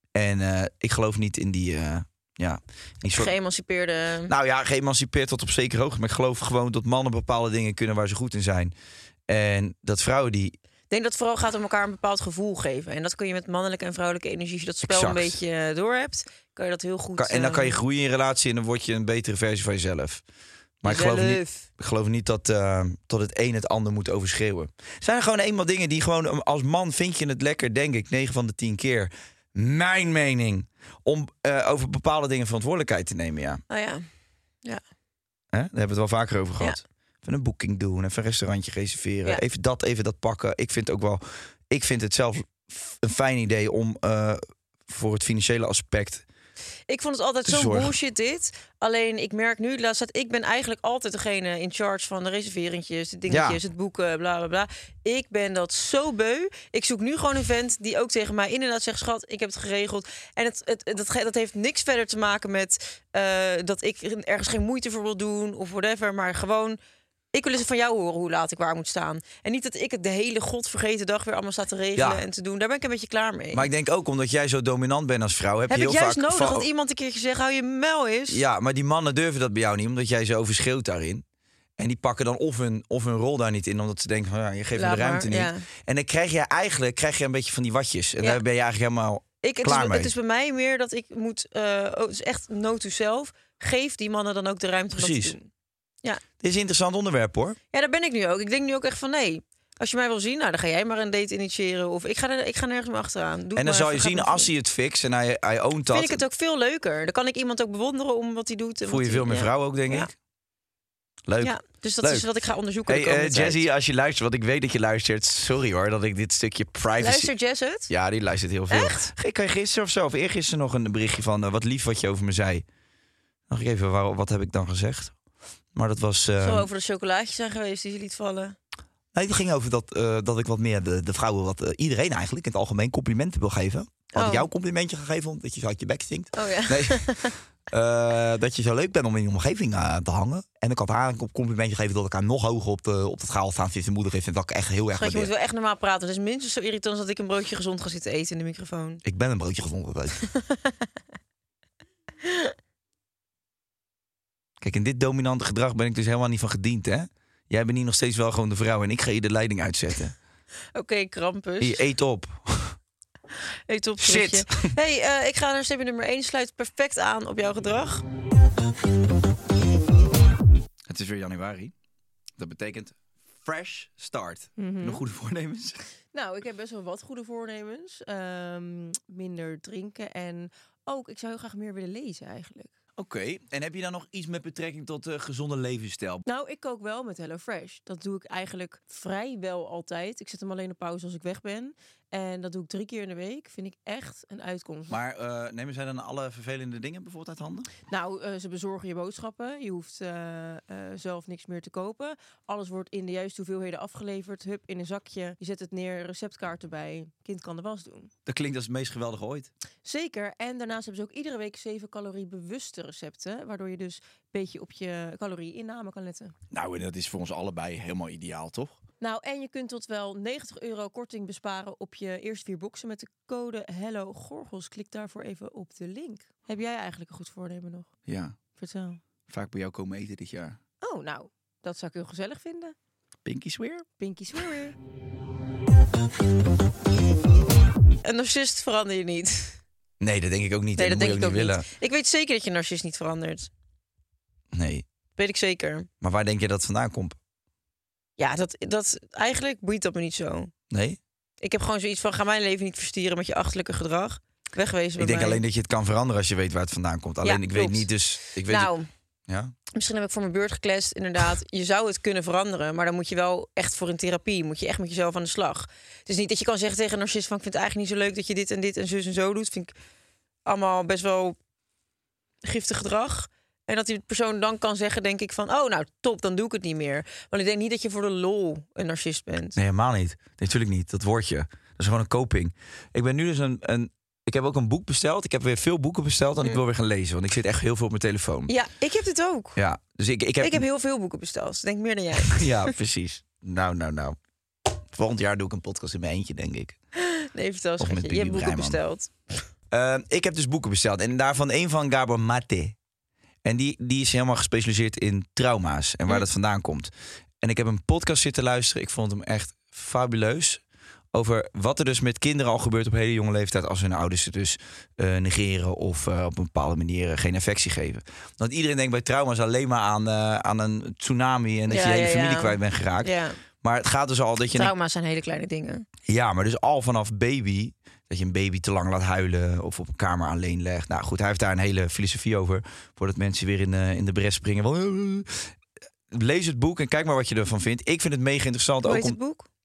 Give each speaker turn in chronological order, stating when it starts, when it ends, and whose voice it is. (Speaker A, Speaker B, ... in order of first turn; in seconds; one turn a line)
Speaker A: 0.1-3.3
Speaker B: 3.1-4.3
Speaker A: 4.3-8.7
Speaker A: 9.3-10.6
Speaker B: 10.9-17.8
Speaker A: 14.8-15.4
Speaker A: 17.2-20.2
Speaker A: 20.8-33.6
Speaker B: 20.9-21.7
Speaker B: 33.7-34.0
Speaker A: 35.5-46.2
Speaker B: 46.9-66.8
Speaker A: 47.5-47.9
Speaker A: 53.3-53.6
Speaker B: 67.3-73.7
Speaker A: 72.0-72.2
Speaker A: 73.5-76.7
Speaker B: 75.7-78.4
Speaker A: 78.3-81.2
Speaker A: 81.8-90.1
Speaker B: 84.8-85.7
Speaker B: 89.4-95.5
Speaker A: 95.0-95.4
Speaker A: 96.4-97.6
Speaker B: 97.7-104.5
Speaker A: 103.6-106.2
Speaker B: 105.9-110.1
Speaker A: 108.8-110.1
Speaker A: 111.3-112.3
Speaker B: 111.4-113.6
Speaker A: 112.9-117.3
Speaker B: 117.0-117.9
Speaker A: 117.9-122.6
Speaker B: 118.7-119.1
Speaker A: 123.5-125.1
Speaker A: 125.7-126.7
Speaker B: 126.4-128.6
Speaker A: 129.1-145.3
Speaker B: 134.1-134.5
Speaker B: 136.3-137.4
Speaker B: 144.9-149.0
Speaker A: 149.0-150.2
Speaker B: 150.3-150.7
Speaker B: 152.2-152.5
Speaker A: 154.6-160.2
Speaker B: 160.8-161.8
Speaker A: 161.6-162.8
Speaker B: 163.7-168.0
Speaker A: 164.0-164.7
Speaker A: 170.9-171.7
Speaker A: 172.4-175.8
Speaker B: 174.6-175.0
Speaker B: 176.1-182.7
Speaker A: 183.0-186.2
Speaker B: 186.3-195.0
Speaker A: 194.9-197.7
Speaker B: 197.9-208.1
Speaker A: 208.3-209.5
Speaker B: 209.8-216.3
Speaker A: 216.5-218.8
Speaker B: 219.0-227.9
Speaker A: 228.1-228.4
Speaker B: 228.6-229.0
Speaker A: 229.3-230.6
Speaker B: 230.8-232.8
Speaker A: 233.2-233.9
Speaker B: 234.0-234.8
Speaker B: 238.0-239.6
Speaker A: 240.0-241.7
Speaker B: 240.8-243.5
Speaker A: 244.5-244.8
Speaker B: 245.2-245.9
Speaker A: 246.0-247.2
Speaker B: 248.2-250.5
Speaker A: 250.7-251.0
Speaker B: 251.4-255.4
Speaker A: 255.0-258.7
Speaker B: 257.2-258.9
Speaker A: 259.3-259.5
Speaker B: 259.7-269.7
Speaker B: 270.5-271.4
Speaker B: 272.4-279.6
Speaker A: 279.6-288.5
Speaker B: 288.5-289.6
Speaker A: 289.6-290.6
Speaker B: 290.4-292.7
Speaker A: 292.3-294.2
Speaker A: 294.9-296.8
Speaker B: 297.0-299.5
Speaker A: 297.8-298.8
Speaker A: 299.7-302.8
Speaker A: 303.4-310.6
Speaker A: 311.1-324.7
Speaker B: 321.7-323.4
Speaker B: 324.5-325.9
Speaker A: 326.1-335.5
Speaker A: 336.1-339.2
Speaker B: 338.8-339.5